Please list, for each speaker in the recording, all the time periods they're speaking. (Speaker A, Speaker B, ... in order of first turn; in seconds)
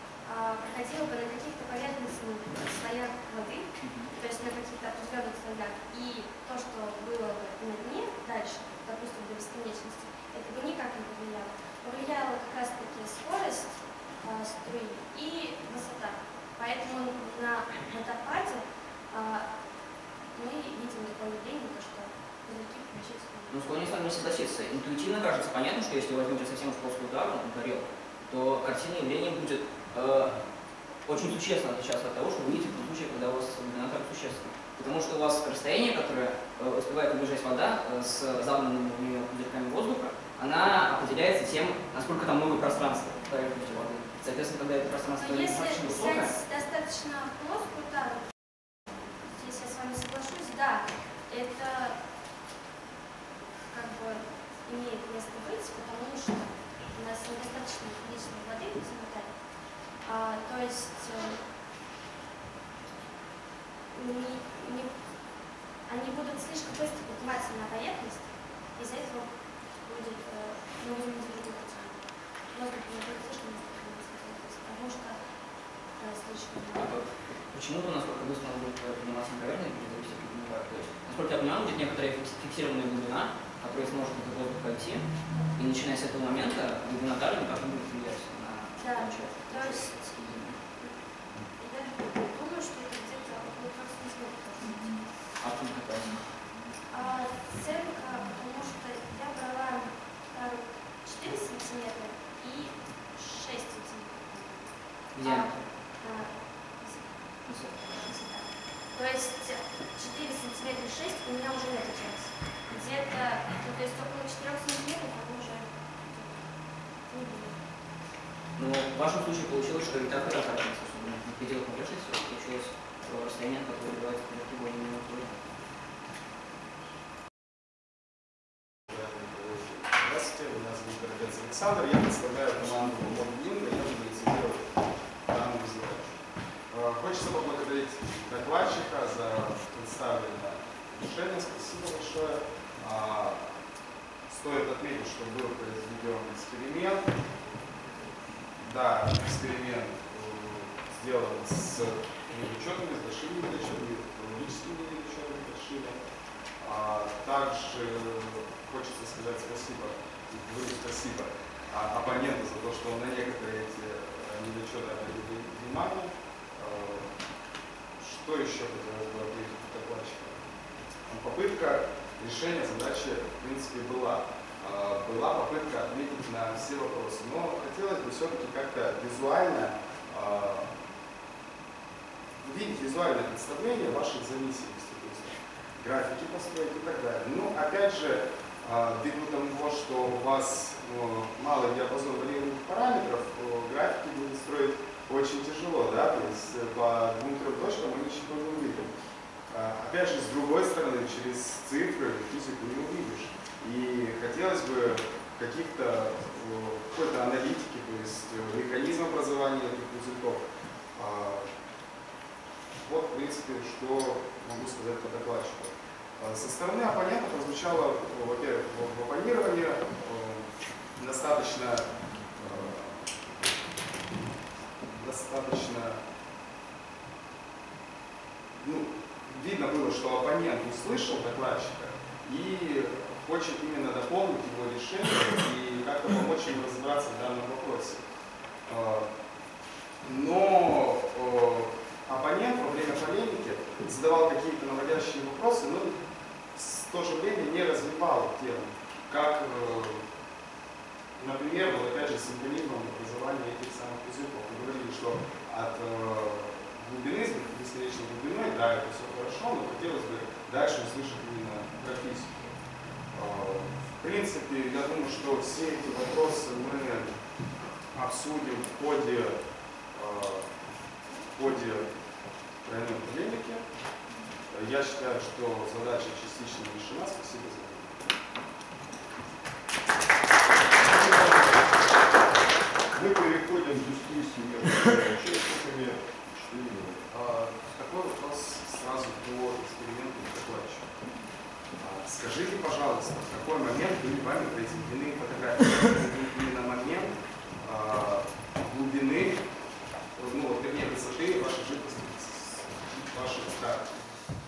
Speaker A: 0.2-19.5, 20.3-23.8, 45.2-48.3, 49.2-52.0, 53.7-59.5, 60.0-61.4, 63.9-65.0, 65.8-75.2, 76.0-77.0, 88.8-90.0, 91.6-95.0, 96.9-116.5, 117.1-117.6
Speaker B: 3.8-4.1, 23.5-30.4, 31.1-46.3, 76.7-85.0, 85.6-90.6, 95.4-96.3, 105.2-105.7, 107.5-107.7, 118.6-125.4
Speaker C: 128.9-134.7, 135.2-143.5, 144.3-147.1, 148.6-156.0, 156.6-167.1, 168.0-170.5, 171.1-180.7, 182.4-198.9, 199.5-211.5, 212.8-223.2, 224.8-226.0, 228.6-238.1, 238.7-239.1, 240.0-246.0, 246.5-250.0, 251.2-262.5, 263.1-267.1, 267.9-269.4, 269.9-270.5, 271.3-271.9, 272.6-273.6, 274.5-278.1, 287.1-290.9, 291.8-299.4, 300.1-303.9
Speaker D: 280.8-281.8, 282.9-287.1